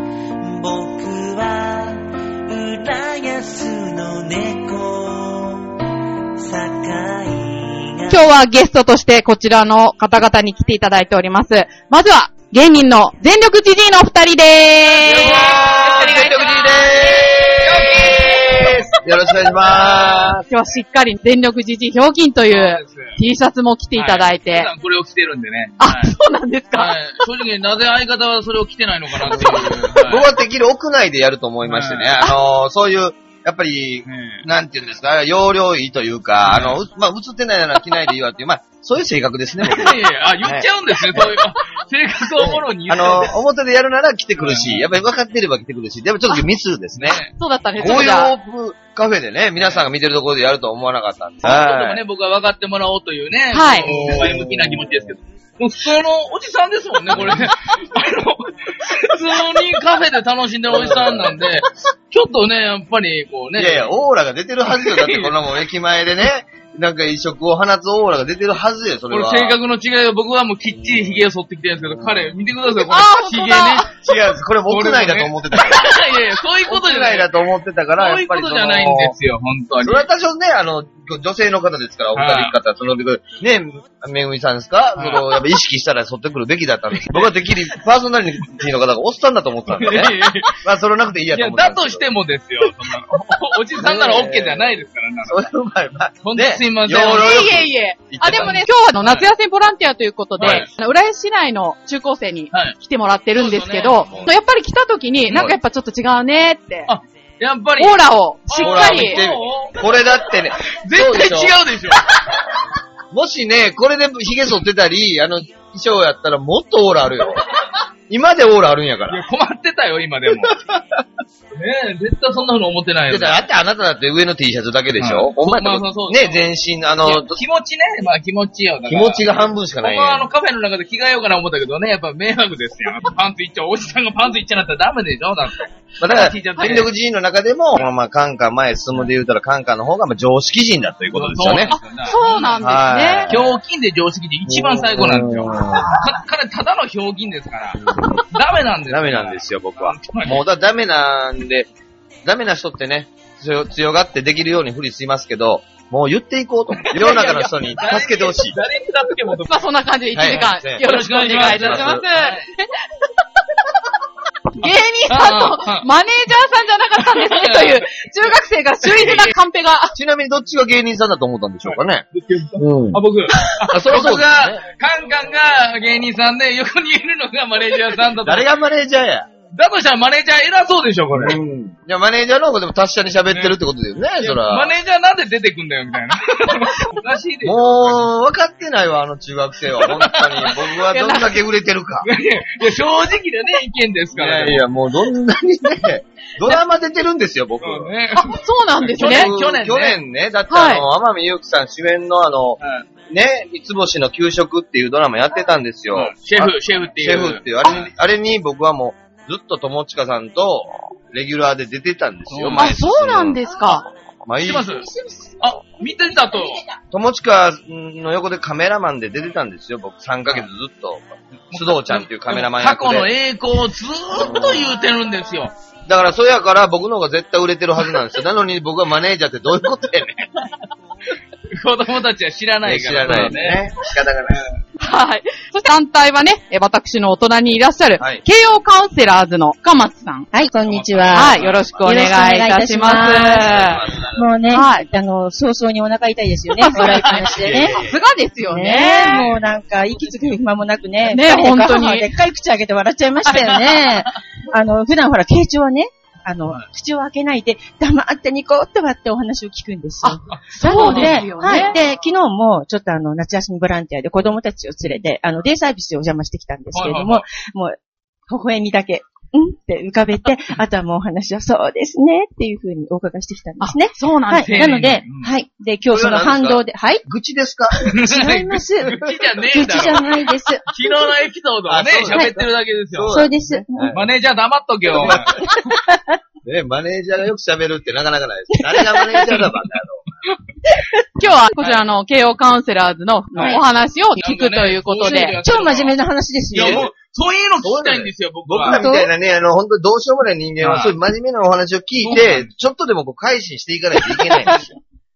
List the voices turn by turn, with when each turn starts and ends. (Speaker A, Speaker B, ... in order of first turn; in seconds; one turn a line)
Speaker A: 0.4-5.8
Speaker A: 6.4-8.2
Speaker B: 8.1-16.2
Speaker C: 15.0-19.0
Speaker D: 15.1-20.4
Speaker C: 19.5-20.4
Speaker B: 20.5-24.7
Speaker C: 22.5-23.2
Speaker C: 24.0-26.1
Speaker B: 25.8-27.2
Speaker C: 26.7-30.3
Speaker D: 29.2-41.5
Speaker C: 31.6-32.2
Speaker C: 34.1-34.4
Speaker C: 36.5-36.8
Speaker C: 39.6-43.4
Speaker D: 42.4-47.2
Speaker C: 44.4-44.9
Speaker C: 47.0-47.3
Speaker B: 47.4-48.4
Speaker D: 47.8-52.0
Speaker C: 51.4-63.9
Speaker B: 53.5-54.0
Speaker D: 53.9-55.1
Speaker D: 57.1-57.5
Speaker D: 60.7-61.5
Speaker D: 63.6-69.6
Speaker C: 64.7-65.3
Speaker C: 69.1-77.3
Speaker D: 70.9-71.2
Speaker D: 71.8-72.4
Speaker B: 72.7-74.0
Speaker D: 74.0-79.2
Speaker C: 78.0-80.1
Speaker D: 79.8-92.1
Speaker C: 82.2-82.5
Speaker C: 85.0-85.3
Speaker C: 89.7-90.6
Speaker C: 91.3-95.5
Speaker D: 93.8-98.7
Speaker C: 96.2-97.5
Speaker B: 97.0-106.9
Speaker C: 98.2-99.3
Speaker C: 100.4-100.7
Speaker D: 100.4-100.7
Speaker C: 103.3-104.2
Speaker C: 106.9-112.3
Speaker B: 107.8-109.2
Speaker D: 108.6-111.6
Speaker D: 113.1-117.5
Speaker D: 118.1-119.2
Speaker C: 119.1-120.8
Speaker D: 120.3-120.8
Speaker C: 121.5-123.5
Speaker D: 123.1-127.4
Speaker C: 125.0-126.4
Speaker C: 127.0-129.2
Speaker D: 128.9-130.3
Speaker C: 129.8-136.9
Speaker D: 136.0-141.7
Speaker C: 141.1-150.4
Speaker B: 141.7-143.4
Speaker D: 142.6-143.4
Speaker D: 144.5-146.1
Speaker D: 147.8-148.2
Speaker D: 148.9-151.7
Speaker D: 152.2-158.6
Speaker C: 156.8-159.5
Speaker B: 157.0-157.5
Speaker B: 159.5-162.7
Speaker D: 160.1-162.1
Speaker C: 160.8-162.5
Speaker B: 164.5-170.0
Speaker C: 164.6-165.8
Speaker C: 167.0-167.8
Speaker C: 168.8-169.3
Speaker D: 170.0-172.1
Speaker C: 171.7-178.5
Speaker D: 172.6-173.0
Speaker D: 173.7-174.6
Speaker D: 178.2-179.3
Speaker C: 179.5-181.4
Speaker D: 181.1-184.7
Speaker C: 184.2-188.1
Speaker D: 187.4-192.1
Speaker C: 189.8-190.7
Speaker B: 190.9-191.3
Speaker C: 192.0-194.7
Speaker D: 194.1-197.9
Speaker C: 197.6-200.0
Speaker B: 198.2-199.3
Speaker D: 199.0-213.6
Speaker B: 200.5-200.8
Speaker C: 202.6-202.9
Speaker C: 205.9-207.9
Speaker C: 212.3-212.8
Speaker B: 212.5-213.9
Speaker E: 213.5-213.8
Speaker D: 214.2-214.8
Speaker C: 214.4-214.9
Speaker E: 214.7-215.4
Speaker C: 215.4-216.6
Speaker E: 216.3-216.6
Speaker D: 216.9-223.1
Speaker C: 221.5-225.5
Speaker D: 224.1-224.8
Speaker D: 225.9-230.2
Speaker C: 231.5-233.6
Speaker D: 232.6-234.5
Speaker C: 234.3-234.6
Speaker B: 234.8-240.3
Speaker D: 238.0-238.2
Speaker E: 240.3-243.5
Speaker C: 240.7-242.0
Speaker B: 241.1-243.8
Speaker D: 241.4-241.7
Speaker D: 242.8-244.3
Speaker E: 244.1-247.8
Speaker B: 244.5-244.8
Speaker C: 246.6-247.7
Speaker D: 247.2-248.0
Speaker B: 247.6-249.2
Speaker E: 248.4-267.8
Speaker C: 249.1-249.4
Speaker C: 250.0-250.4
Speaker B: 251.1-252.1
Speaker C: 253.4-254.0
Speaker B: 260.0-261.8
Speaker C: 260.3-261.7
Speaker C: 266.7-267.2
Speaker E: 268.3-277.0
Speaker B: 273.6-274.6
Speaker C: 274.5-275.3
Speaker D: 275.9-277.9
Speaker C: 277.9-283.3
Speaker E: 277.9-280.8
Speaker D: 281.7-284.1
Speaker E: 282.1-282.4
Speaker E: 283.1-283.9
Speaker C: 283.9-285.5
Speaker D: 284.9-285.6
Speaker E: 285.4-286.2
Speaker D: 286.4-290.1
Speaker E: 288.7-289.4
Speaker B: 291.2-295.4
Speaker C: 293.3-293.6
Speaker E: 293.4-293.6
Speaker C: 294.2-296.0
Speaker E: 295.0-296.9
Speaker C: 296.5-298.9
Speaker D: 296.6-296.9
Speaker D: 297.6-304.8
Speaker E: 298.6-299.1
Speaker C: 300.6-301.0
Speaker C: 302.0-302.5